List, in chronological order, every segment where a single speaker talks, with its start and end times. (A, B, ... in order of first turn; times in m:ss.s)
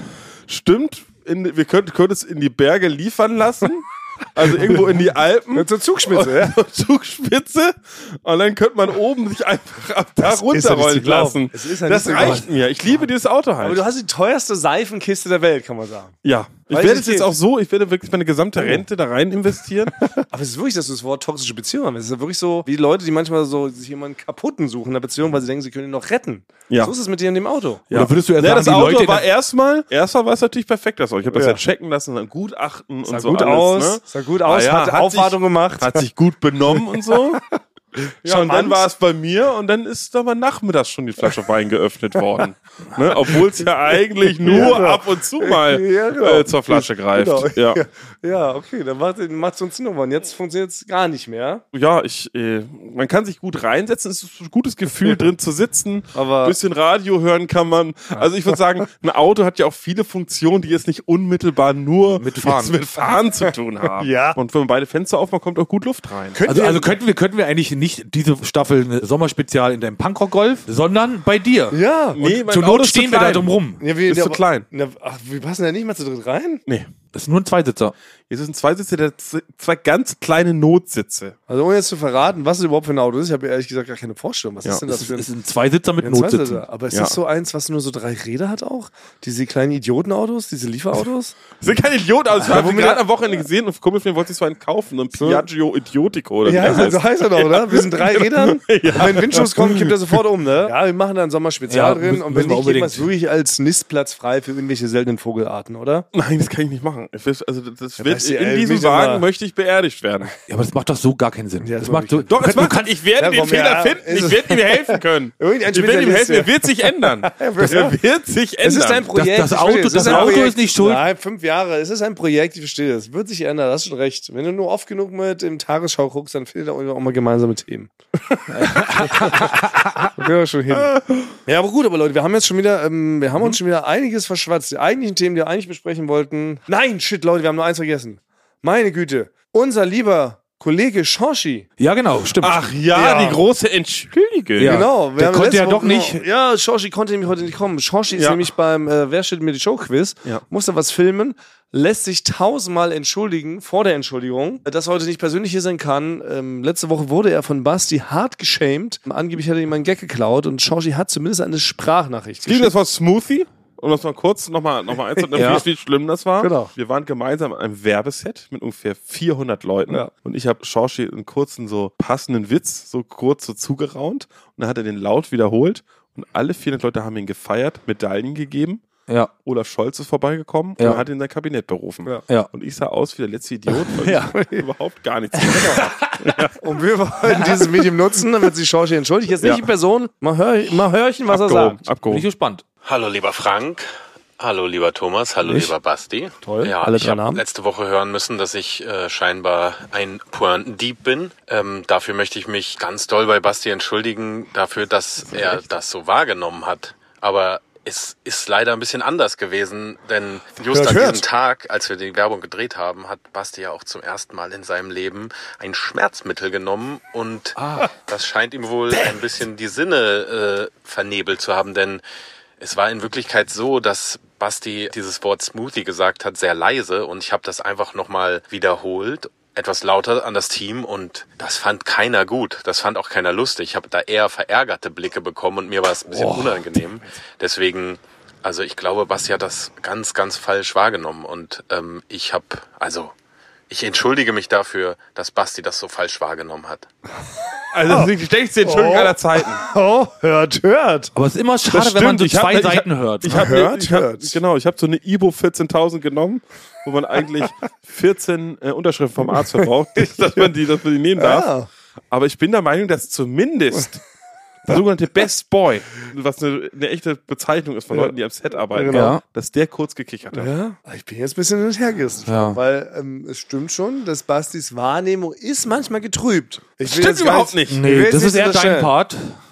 0:00.5-0:13.8 A
0:05.5-0:06.6 B
0:10.2-0:12.5 B
0:13.6-0:16.1 B
0:16.2-0:20.0 A
0:16.7-0:17.3 B
0:20.3-0:27.8 B
0:26.7-0:26.9 A
0:27.9-0:37.4 A
0:27.9-0:29.3 C
0:31.3-0:31.6 B
0:33.0-0:36.0 B
0:37.1-0:37.4 B
0:38.2-0:38.9 B
0:38.2-0:47.8 A
0:44.4-0:51.6 B
0:51.7-1:06.4 A
0:56.1-0:56.6 B
1:02.2-1:02.7 C
1:03.4-1:04.4 B
1:06.3-1:06.9 B
1:06.5-1:11.8 C
1:11.7-1:12.2 B
1:12.2-1:13.5 A
1:12.4-1:13.8 C
1:13.8-1:16.6 B
1:14.0-1:14.6 A
1:17.1-1:17.9 C
1:18.3-1:21.4 A
1:21.5-1:25.3 B
1:24.9-1:26.6 C
1:26.0-1:31.4 B
1:26.9-1:27.2 A
1:31.6-1:40.2 A
1:32.4-1:33.0 B
1:35.1-1:35.4 B
1:36.4-1:46.1 B
1:41.7-1:43.0 C
1:46.1-1:50.3 A
1:48.0-1:49.2 B
1:50.5-1:52.9 C
1:51.6-1:52.3 B
1:52.3-1:59.1 A
1:53.2-1:58.0 B
1:58.6-2:09.5 B
1:59.1-2:01.0 C
2:00.0-2:00.5 A
2:08.5-2:10.1 C
2:10.2-2:10.9 B
2:10.7-2:11.3 A
2:11.4-2:21.7 B
2:21.8-2:22.7 C
2:22.4-2:24.8 A
2:22.9-2:23.4 B
2:24.6-2:26.2 C
2:24.6-2:42.7 B
2:28.1-2:28.4 A
2:42.4-2:58.8 A
2:45.2-2:45.6 B
2:45.4-2:45.6 C
2:46.4-2:46.7 B
2:59.4-3:06.5 A
3:00.8-3:01.0 C
3:03.9-3:04.3 C
3:04.4-3:04.6 B
3:05.5-3:06.2 C
3:06.6-3:11.8 B
3:09.4-3:09.7 A
3:11.3-3:12.2 A
3:12.1-3:12.6 C
3:12.8-3:13.8 D
3:14.4-3:42.0 D
3:15.4-3:15.7 B
3:16.4-3:17.4 B
3:30.7-3:31.2 B
3:37.6-3:37.8 C
3:42.6-4:03.1 D
3:56.1-3:56.8 C
4:03.7-4:06.9 D
4:07.7-4:09.6 A
4:07.9-4:11.1 B
4:11.1-4:13.5 C
4:11.7-4:21.5 A
4:13.3-4:14.4 B
4:20.0-4:20.5 B
4:21.2-4:21.7 B
4:22.1-4:24.0 A
4:24.6-4:30.5 A
4:28.7-4:29.1 B
4:28.9-4:29.2 C
4:30.3-4:38.9 B
4:32.3-4:32.6 C
4:36.8-4:37.8 A
4:37.7-4:39.2 C